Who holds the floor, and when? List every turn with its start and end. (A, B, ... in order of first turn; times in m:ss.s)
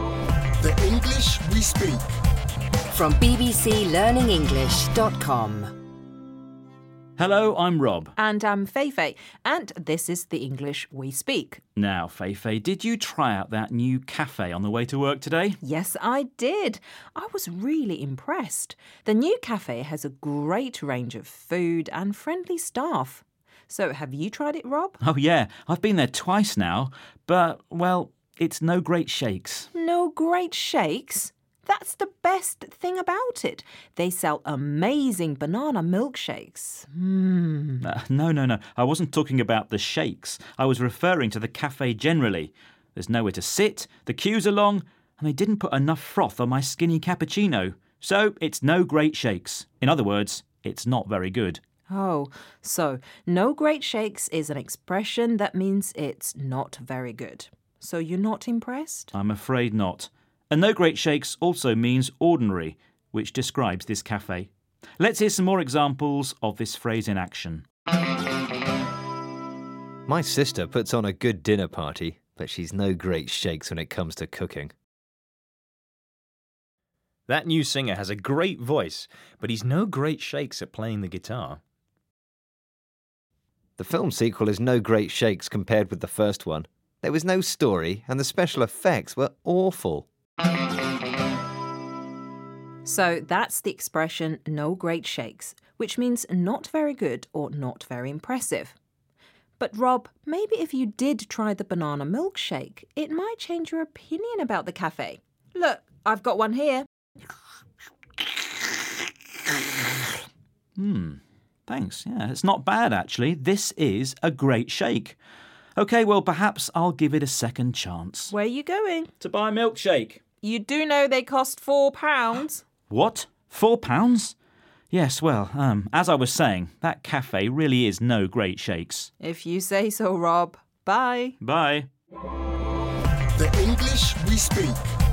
0:00.6-0:02.0 A
0:02.9-0:05.7 B
0:07.2-0:08.1 C
0:08.2-0:11.6 D
0:11.8-0:15.6 C
0:15.6-0:25.0 D
0:25.0-0:29.7 C
0:29.7-0:37.8 D
0:37.8-0:51.6 C
0:51.9-0:59.1 D
0:59.1-1:07.7 C
1:10.1-1:14.7 E
1:17.3-1:21.6 F
1:23.8-1:30.1 E
1:32.8-1:38.8 D
1:39.6-1:46.9 D
1:50.8-1:55.2 C
1:55.8-1:58.3 C
1:58.3-1:59.1 D
1:59.2-2:00.2 C
2:00.4-2:02.6 D
2:02.9-2:04.3 C
2:04.9-2:09.1 C
2:09.2-2:11.4 D
2:11.4-2:11.9 C
2:13.4-2:14.8 A